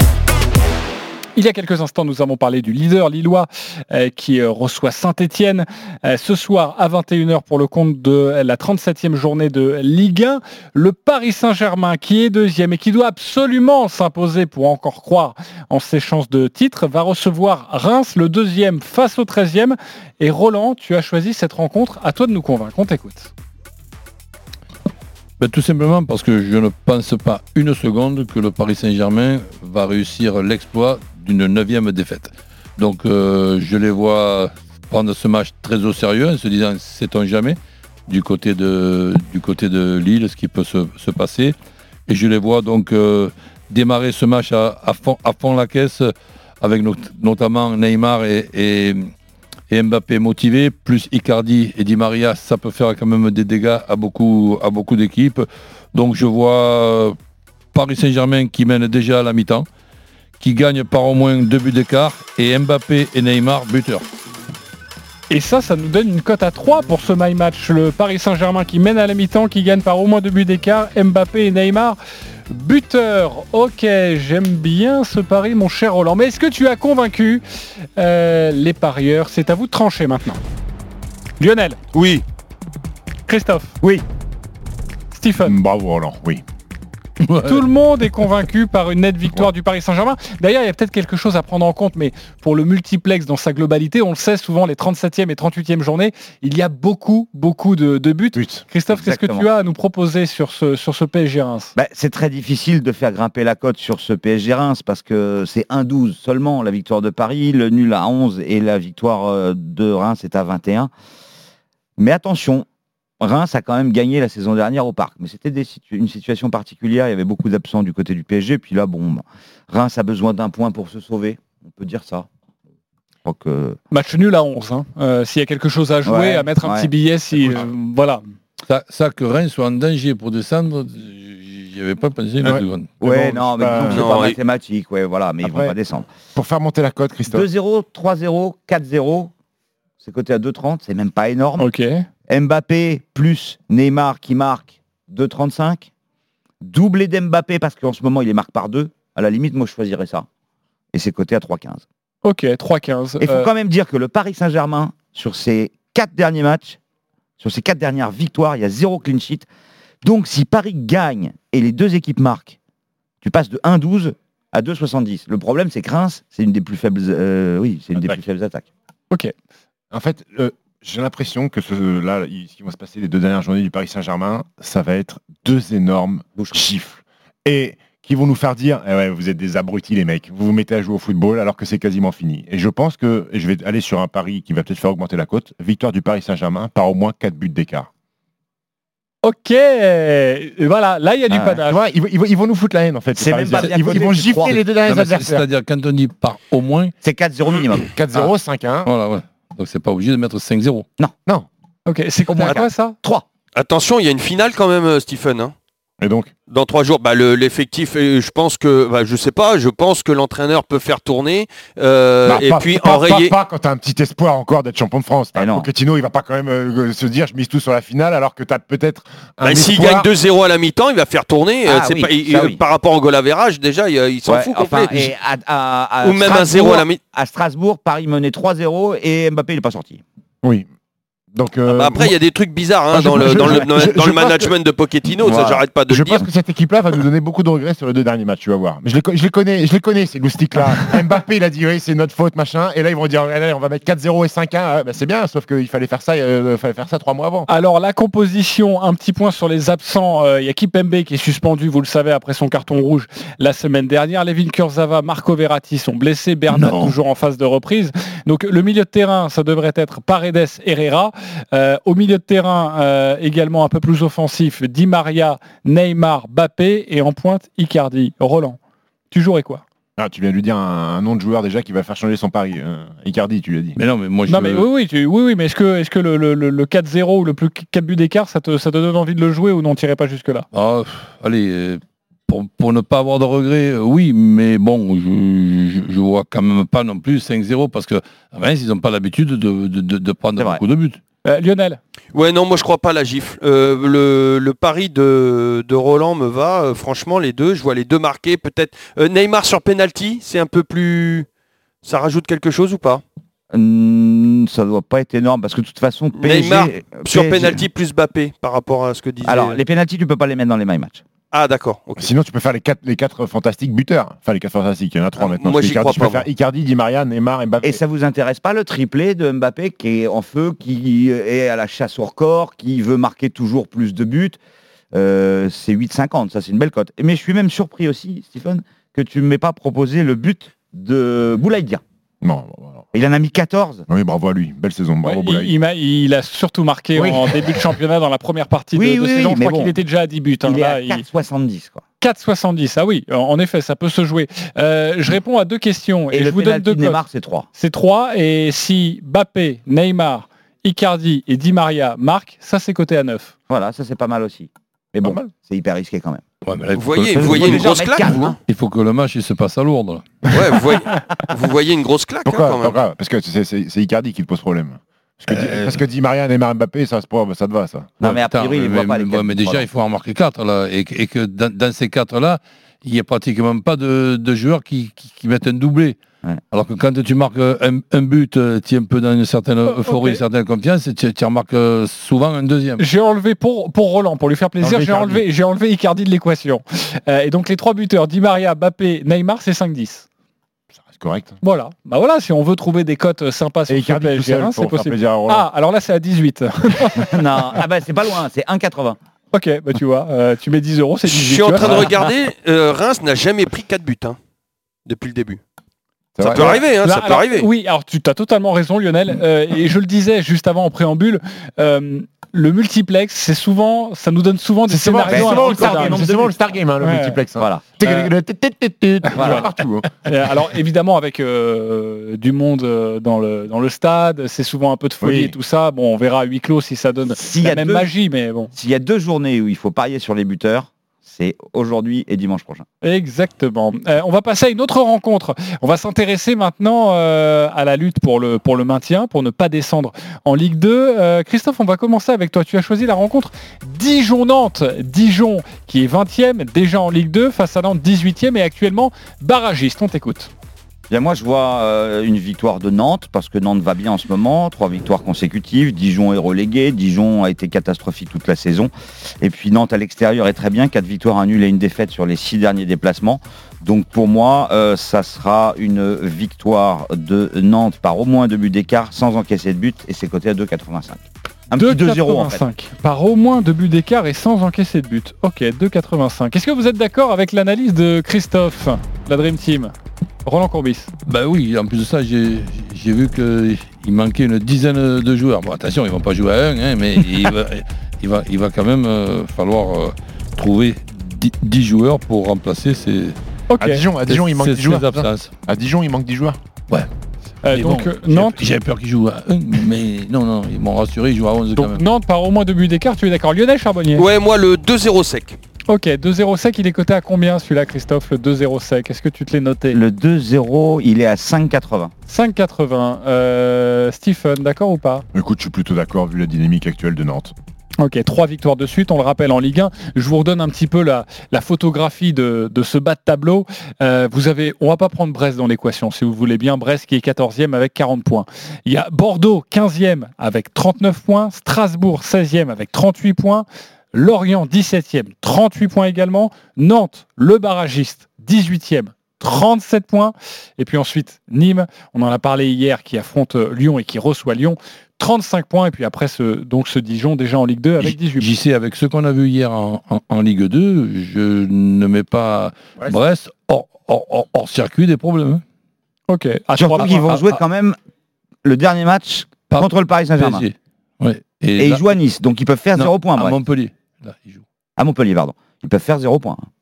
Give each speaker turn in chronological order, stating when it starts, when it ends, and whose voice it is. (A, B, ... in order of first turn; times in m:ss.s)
0:01.4-0:23.3 A
0:25.4-0:41.6 B
0:42.1-0:49.1 B
0:49.7-0:57.2 B
0:57.7-0:59.7 B
1:00.4-1:04.0 B
1:05.3-1:12.0 A
1:12.5-1:17.4 A
1:18.0-1:20.4 A
1:21.4-1:21.8 A
1:21.9-1:22.2 C
1:23.3-1:23.8 A
1:25.1-1:25.5 A
1:25.4-1:26.4 D
1:27.2-1:27.7 B
1:27.4-1:41.7 A
1:38.3-1:38.6 D
1:38.9-1:39.5 E
1:41.7-1:50.9 E
1:52.0-1:52.6 E
1:53.2-2:02.3 E
2:03.2-2:03.8 E
2:03.9-2:08.2 A
2:06.0-2:06.9 E
2:08.7-2:13.0 B
2:12.4-2:14.3 D
2:13.0-2:16.1 E
2:13.9-2:14.4 C
2:15.4-2:15.7 D
2:16.3-2:17.5 D
2:17.3-2:19.3 E
2:20.0-2:21.7 E
2:21.6-2:22.0 A
2:22.3-2:25.9 E
2:26.6-2:30.3 E
2:30.9-2:31.8 E
2:32.2-2:33.5 A
2:33.2-2:36.8 E
2:37.4-2:39.5 E
2:40.0-2:42.6 E
2:43.2-2:48.6 E
2:49.9-3:07.9 D
2:56.4-2:56.6 E
3:09.2-3:11.8 A
3:11.3-3:11.6 E
3:11.6-3:15.4 D
3:13.1-3:14.6 E
3:14.8-3:16.9 B
3:17.0-3:18.3 E
3:17.9-3:18.9 D
3:18.8-3:20.8 B
3:21.8-3:23.0 A
3:22.3-3:23.2 E
3:23.5-3:25.5 C
3:26.0-3:26.3 D
3:26.5-3:33.3 C
3:32.3-3:40.1 D
3:35.3-3:35.7 E
3:39.4-3:45.1 C
3:41.6-3:42.6 E
3:44.2-3:50.0 E
3:46.0-3:47.0 C
3:51.3-3:52.1 D
3:51.7-3:56.2 C
3:52.9-3:54.5 D
3:55.1-3:55.6 E
3:55.9-4:07.5 D
4:07.5-4:28.6 A
4:16.5-4:16.9 B
4:29.1-4:29.6 A
4:30.0-4:33.8 D
4:33.8-4:34.6 B
4:34.3-4:40.5 A
4:40.5-4:51.0 B
4:51.2-4:51.8 A
4:52.1-5:01.3 C
5:01.8-5:03.0 C
5:03.5-5:07.6 E
5:06.2-5:09.6 C
5:09.2-5:11.0 E
5:11.3-5:12.1 C
5:12.0-5:17.8 D
5:15.2-5:16.3 C
5:17.6-5:24.4 E
5:24.9-5:31.8 E
5:32.2-5:32.8 D
5:32.9-5:33.8 E
5:33.9-5:35.5 D
5:35.0-5:41.0 A
5:37.0-5:37.6 D
5:38.7-5:39.8 E
5:40.4-5:41.8 E
5:42.0-5:47.0 A
5:46.1-5:47.5 E
5:47.5-5:53.3 A
5:53.5-5:56.2 E
5:55.0-5:55.3 D
5:56.4-6:00.1 B
5:56.7-5:58.4 C
5:57.2-5:58.4 E
6:00.3-6:02.8 C
6:02.2-6:08.0 D
6:05.3-6:05.8 B
6:08.0-6:09.7 E
6:08.0-6:16.0 B
6:16.5-6:22.8 B
6:19.6-6:20.2 A
6:22.8-6:30.0 A
6:24.6-6:25.2 D
6:30.8-6:31.4 D
6:31.4-6:37.1 A
6:33.7-6:35.5 D
6:37.0-6:39.0 E
6:39.3-6:41.9 A
6:41.1-6:44.2 C
6:41.6-6:42.0 E
6:44.8-6:45.4 C
6:46.2-6:46.5 D
6:46.2-6:46.6 E
6:46.3-6:47.5 C
6:46.8-6:56.0 A
6:54.7-6:59.9 D
6:55.0-6:56.4 E
6:56.8-6:57.2 A
6:57.4-6:57.8 E
6:57.8-6:58.1 A
6:59.1-6:59.4 A
6:59.1-6:59.5 E
7:00.0-7:08.5 A
7:05.0-7:05.3 D
7:07.1-7:07.9 E
7:08.5-7:12.6 E
7:12.8-7:30.3 A
7:30.9-7:52.4 E
7:51.6-7:59.7 A
8:00.2-8:00.9 A
8:01.1-8:13.2 B
8:13.5-8:13.8 A
8:13.6-8:16.4 D
8:14.1-8:15.3 B
8:17.4-8:18.5 A
8:17.5-8:21.8 B
8:21.6-8:24.0 A
8:24.0-8:25.4 C
8:25.7-8:29.8 A
8:29.7-8:31.9 E
8:32.1-8:35.0 A
8:35.1-8:37.3 D
8:37.8-9:08.3 A
9:07.8-9:15.4 B
9:16.1-9:17.4 A
9:16.6-9:17.8 E
9:18.4-9:20.4 E
9:19.5-9:21.8 B
9:21.6-9:23.4 E
9:22.8-9:24.4 B
9:24.8-9:26.4 E